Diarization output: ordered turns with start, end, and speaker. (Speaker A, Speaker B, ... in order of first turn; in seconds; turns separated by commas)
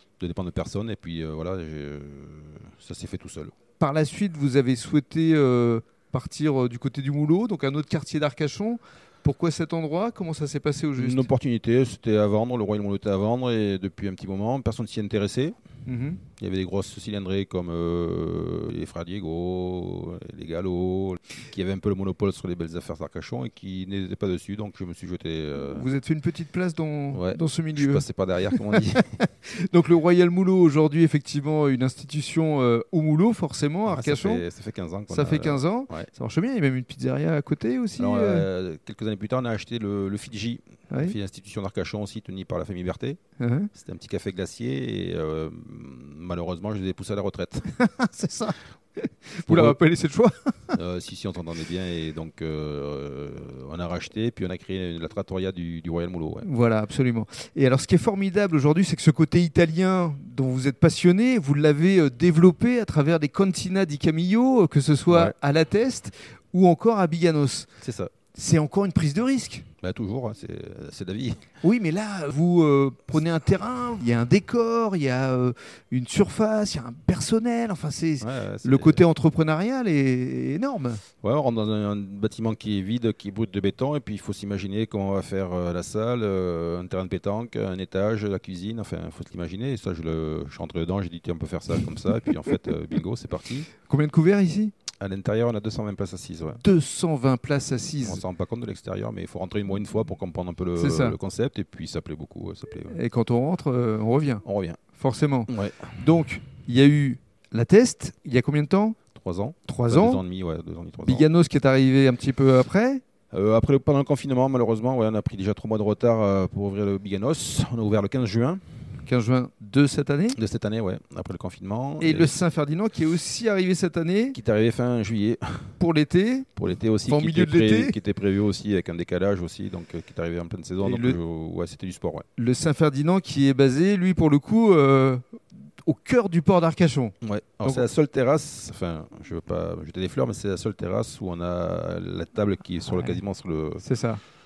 Speaker A: 0.2-3.5, Speaker B: 3.8-11.3, Speaker A: 11.0-15.6, Speaker B: 15.8-16.2, Speaker A: 16.4-25.9, Speaker B: 25.6-34.4, Speaker A: 27.1-29.1, Speaker A: 33.9-36.1, Speaker B: 35.1-38.5, Speaker A: 38.0-43.2, Speaker B: 43.4-43.7, Speaker A: 43.7-47.7, Speaker B: 47.8-50.8, Speaker A: 49.5-49.8, Speaker A: 50.7-56.5, Speaker B: 56.4-67.7, Speaker A: 65.1-65.3, Speaker A: 67.8-68.1, Speaker B: 68.3-69.7, Speaker A: 69.8-71.4, Speaker B: 71.6-81.0, Speaker A: 78.2-79.0, Speaker A: 81.2-93.7, Speaker B: 93.8-94.7, Speaker A: 95.0-96.6, Speaker B: 96.6-98.2, Speaker A: 98.0-103.0, Speaker B: 100.8-101.2, Speaker B: 102.9-109.0, Speaker A: 104.4-104.8, Speaker A: 105.5-106.0, Speaker A: 109.1-111.2, Speaker B: 109.7-110.2, Speaker B: 111.0-113.0, Speaker A: 113.3-118.8, Speaker B: 119.0-120.4, Speaker A: 120.3-122.3, Speaker B: 122.0-124.4, Speaker A: 124.3-125.8, Speaker B: 125.8-126.5, Speaker A: 126.5-132.2, Speaker B: 127.1-128.0, Speaker B: 130.8-131.2, Speaker B: 132.4-137.9, Speaker A: 137.2-143.8, Speaker B: 143.8-144.2